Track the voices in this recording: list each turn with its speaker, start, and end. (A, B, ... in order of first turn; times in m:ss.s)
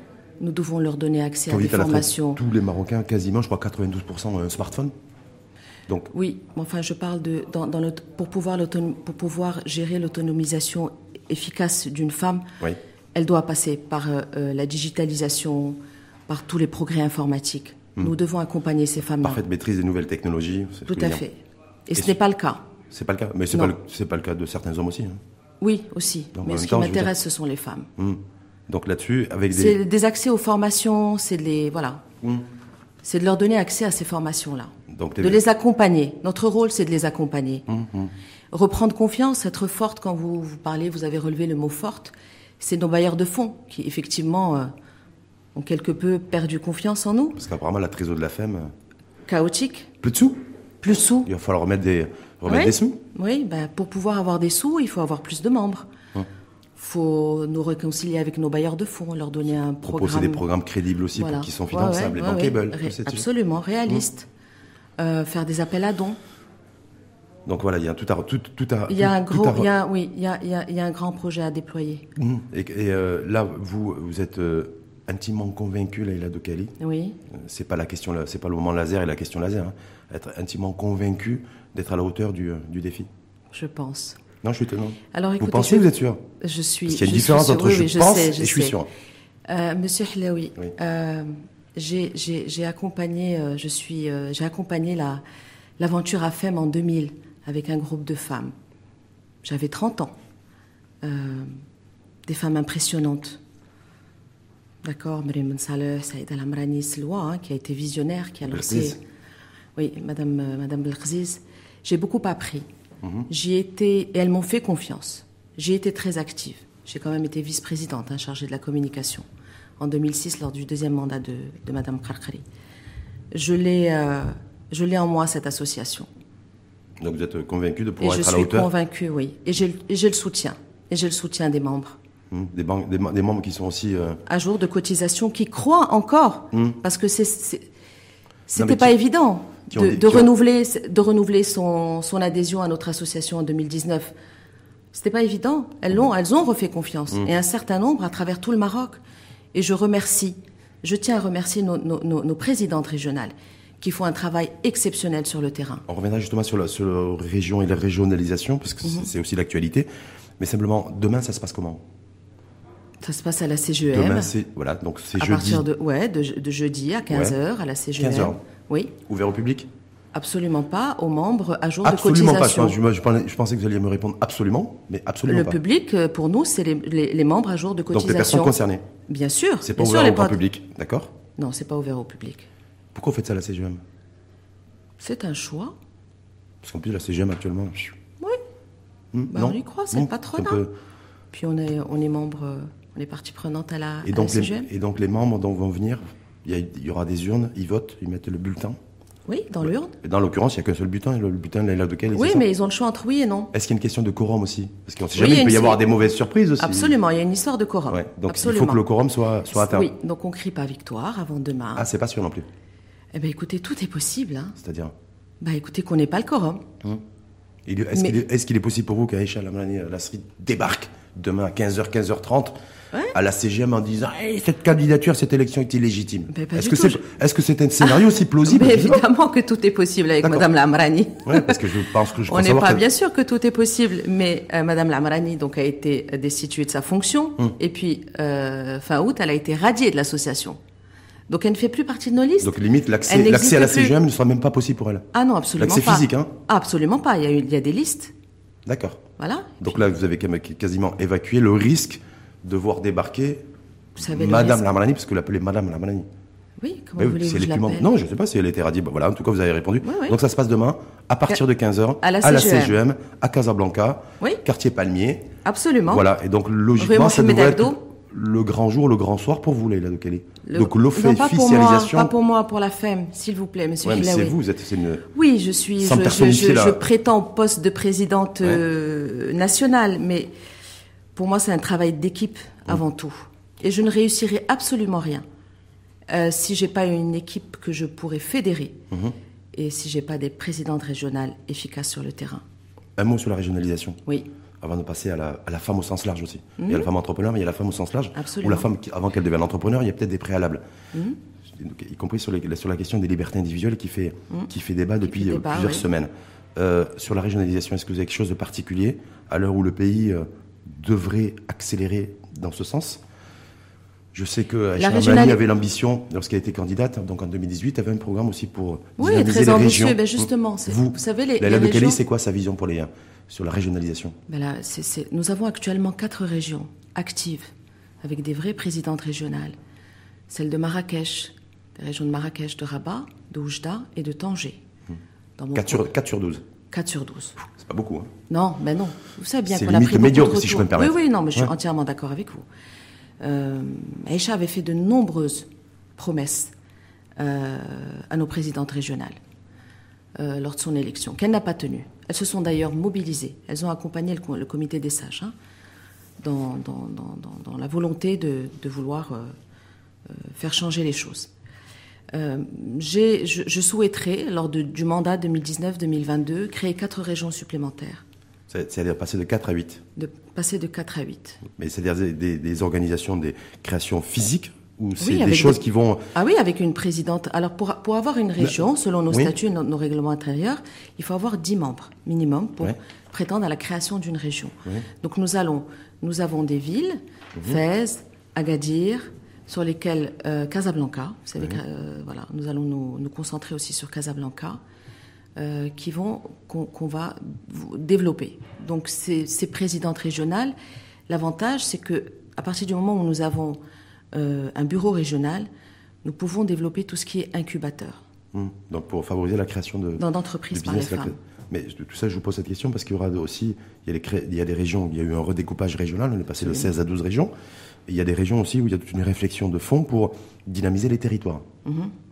0:00.4-0:02.4 A
0:01.5-0:04.9 B
0:06.1-0:12.5 A
0:13.1-0:19.4 A
0:19.2-0:21.2 B
0:20.9-0:22.6 A
0:22.9-0:25.2 B
0:25.6-0:27.9 A
0:26.3-0:27.1 B
0:28.0-0:29.8 B
0:29.5-0:32.1 A
0:33.0-0:37.7 A
0:34.9-0:35.4 B
0:37.7-0:38.1 B
0:38.5-0:44.7 A
0:45.5-0:47.4 A
0:47.4-0:48.7 B
0:49.3-0:50.0 A
0:50.0-0:50.4 B
0:50.8-0:51.3 A
0:51.2-0:53.0 B
0:52.5-0:55.9 A
0:56.8-1:00.4 A
0:59.8-1:03.2 B
1:01.1-1:04.3 A
1:05.0-1:06.2 A
1:07.4-1:09.7 B
1:08.9-1:12.1 A
1:12.2-1:16.7 B
1:16.8-1:17.2 A
1:17.3-1:23.1 B
1:23.5-1:24.2 A
1:24.4-1:26.2 B
1:25.1-1:25.9 A
1:26.4-1:28.8 A
1:26.9-1:28.9 B
1:29.5-1:35.2 A
1:35.8-1:38.5 A
1:39.4-1:40.1 A
1:41.0-1:41.5 A
1:42.3-1:43.4 A
1:44.8-1:49.0 A
1:48.5-1:49.0 B
1:49.8-1:52.6 A
1:53.3-1:59.2 A
1:59.8-2:02.4 A
2:03.3-2:06.1 A
2:07.0-2:08.7 B
2:08.0-2:12.0 A
2:12.3-2:14.2 B
2:14.2-2:17.7 A
2:18.5-2:24.1 A
2:18.5-2:19.0 B
2:19.7-2:20.3 B
2:24.9-2:29.0 A
2:29.5-2:35.8 A
2:35.9-2:39.9 B
2:38.8-2:39.1 A
2:40.4-2:41.8 B
2:43.0-2:44.3 A
2:43.9-2:45.6 B
2:45.1-2:48.9 A
2:47.1-2:47.4 B
2:48.0-2:48.4 B
2:49.0-2:49.7 B
2:50.1-2:52.8 A
2:51.8-2:55.6 B
2:55.3-3:00.4 A
2:57.9-2:58.8 B
2:59.6-3:01.1 B
3:01.4-3:02.5 A
3:02.9-3:03.8 B
3:05.0-3:05.7 A
3:06.6-3:08.0 B
3:09.1-3:10.7 B
3:09.3-3:10.6 A
3:11.3-3:14.7 A
3:14.0-3:18.8 B
3:19.3-3:19.9 A
3:20.0-3:22.4 B
3:22.1-3:23.5 A
3:23.5-3:27.0 B
3:25.1-3:25.8 A
3:26.6-3:28.8 A
3:27.9-3:29.9 B
3:29.5-3:31.9 A
3:31.8-3:32.4 B
3:33.1-3:34.6 A
3:34.6-3:34.9 B
3:35.4-3:36.7 A
3:37.6-3:42.5 B
3:43.1-3:49.0 B
3:46.3-3:47.0 A
3:47.8-4:00.6 A
3:51.2-3:52.8 B
4:01.3-4:02.6 A
4:02.4-4:05.0 B
4:03.1-4:04.0 A
4:05.1-4:08.1 A
4:05.6-4:06.3 B
4:08.6-4:09.0 B
4:09.2-4:09.8 A
4:09.6-4:13.4 B
4:14.0-4:14.6 A
4:14.0-4:16.0 B
4:16.6-4:17.9 A
4:17.0-4:25.3 B
4:19.8-4:20.2 A
4:22.0-4:22.8 A
4:25.4-4:26.0 A
4:25.9-4:32.1 B
4:26.8-4:27.8 A
4:30.4-4:34.4 A
4:33.8-4:35.1 B
4:35.1-4:40.3 A
4:35.8-4:36.8 B
4:41.1-4:45.2 A
4:46.1-4:48.8 A
4:49.5-4:52.4 A
4:53.0-4:54.0 B
4:54.6-5:00.6 B
4:56.6-4:56.9 A
4:58.1-4:58.7 A
5:01.5-5:13.0 B
5:05.0-5:05.9 A
5:14.1-5:24.1 B
5:14.8-5:15.4 A
5:19.0-5:22.0 A
5:24.3-5:27.5 A
5:28.0-5:29.6 A
5:30.3-5:34.6 A
5:35.4-5:35.9 A
5:35.5-5:36.4 B
5:36.7-5:37.4 A
5:37.5-5:38.1 B
5:38.3-5:42.4 A
5:39.5-5:41.5 B
5:43.2-5:46.5 A
5:47.2-5:49.2 A
5:50.2-5:55.3 A
5:56.2-5:59.3 A
6:00.1-6:01.3 A
6:02.1-6:08.0 A
6:08.5-6:09.8 B
6:10.0-6:11.4 A
6:11.5-6:16.1 B
6:15.0-6:15.6 A
6:16.1-6:34.6 A
6:18.4-6:19.3 B
6:35.4-6:40.5 A
6:41.1-6:43.6 A
6:44.1-6:45.5 A
6:46.0-6:48.0 A
6:48.3-6:57.3 B
6:50.0-6:51.1 A
6:57.9-7:01.4 B
7:01.6-7:01.9 A